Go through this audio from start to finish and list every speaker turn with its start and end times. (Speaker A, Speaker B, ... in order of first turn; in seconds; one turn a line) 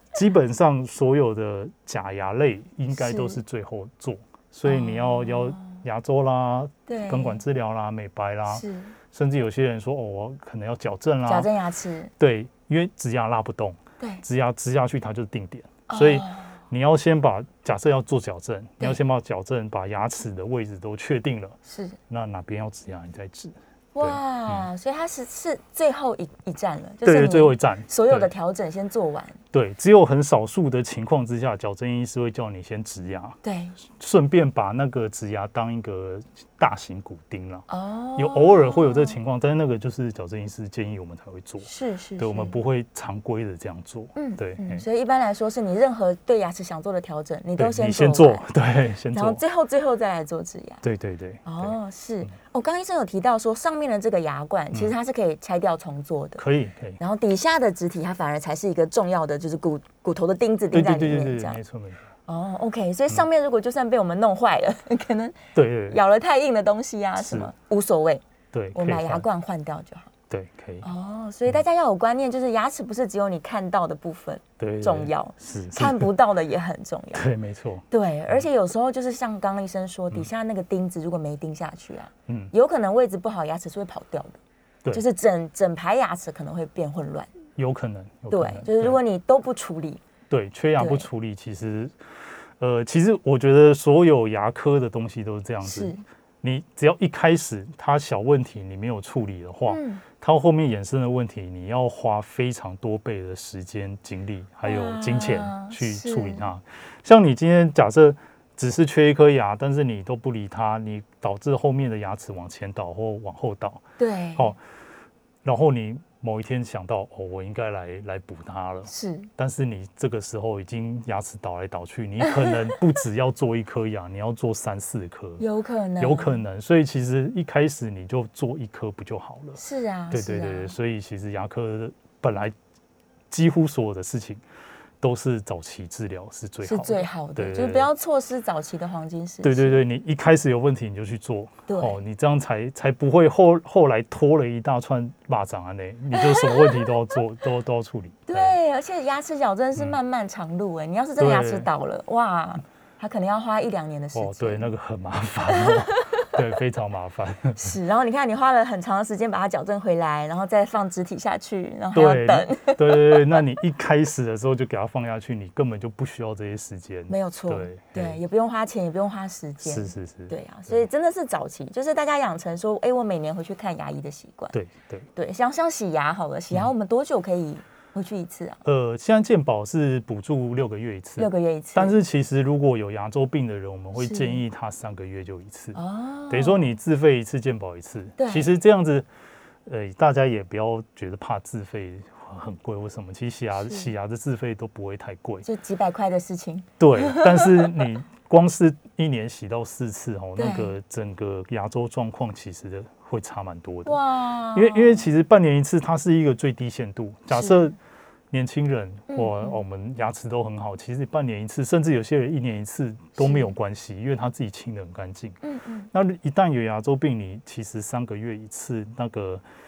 Speaker A: 0.1-11.5
Speaker B: 2.9-3.4
Speaker B: 4.6-5.8
Speaker B: 6.9-7.4
Speaker B: 8.5-8.9
Speaker B: 11.2-12.1
Speaker A: 12.2-21.6
Speaker B: 15.9-16.6
Speaker B: 21.7-22.0
Speaker A: 22.1-24.7
Speaker B: 23.9-29.4
Speaker A: 27.0-28.3
Speaker A: 29.5-37.6
Speaker B: 33.4-33.8
Speaker B: 37.7-39.2
Speaker A: 38.1-44.8
Speaker B: 41.6-42.5
Speaker B: 44.1-48.4
Speaker A: 47.6-49.4
Speaker B: 49.1-50.8
Speaker A: 50.8-52.3
Speaker B: 51.5-56.4
Speaker A: 56.4-57.0
Speaker B: 57.0-61.6
Speaker A: 60.7-62.0
Speaker B: 62.3-68.2
Speaker A: 65.5-66.0
Speaker A: 67.2-67.5
Speaker A: 68.5-69.2
Speaker B: 68.7-70.1
Speaker A: 70.3-70.8
Speaker B: 70.8-77.3
Speaker A: 74.6-76.1
Speaker A: 77.1-78.5
Speaker B: 77.9-84.4
Speaker A: 82.3-82.5
Speaker B: 84.9-87.3
Speaker A: 87.5-89.0
Speaker B: 88.3-90.0
Speaker A: 90.3-92.0
Speaker B: 90.8-91.1
Speaker A: 92.6-113.8
Speaker B: 95.6-96.0
Speaker B: 99.7-100.0
Speaker B: 104.6-106.5
Speaker B: 114.0-114.5
Speaker A: 115.4-125.4
Speaker B: 118.9-119.3
Speaker B: 122.2-122.8
Speaker B: 125.4-126.4
Speaker A: 126.0-129.6
Speaker B: 129.6-130.7
Speaker A: 130.1-132.5
Speaker A: 133.3-134.4
Speaker A: 135.0-137.9
Speaker B: 136.6-139.8
Speaker A: 139.4-148.6
Speaker B: 141.7-142.0
Speaker B: 146.1-147.2
Speaker B: 148.3-154.7
Speaker A: 151.2-151.7
Speaker A: 154.1-157.8
Speaker B: 155.5-156.4
Speaker B: 157.6-163.4
Speaker A: 161.9-168.2
Speaker B: 167.1-174.5
Speaker A: 169.6-170.8
Speaker A: 174.5-175.1
Speaker B: 175.2-178.6
Speaker A: 178.6-185.8
Speaker B: 181.2-182.0
Speaker B: 184.0-184.4
Speaker B: 185.7-186.6
Speaker A: 186.3-189.1
Speaker B: 188.2-188.5
Speaker A: 189.7-195.4
Speaker B: 193.6-193.9
Speaker B: 195.4-197.9
Speaker A: 196.8-204.0
Speaker B: 200.3-200.7
Speaker B: 203.8-205.1
Speaker A: 204.5-207.8
Speaker B: 207.3-207.6
Speaker A: 208.3-215.4
Speaker B: 209.1-209.6
Speaker B: 213.2-213.5
Speaker B: 215.4-215.9
Speaker A: 215.9-219.4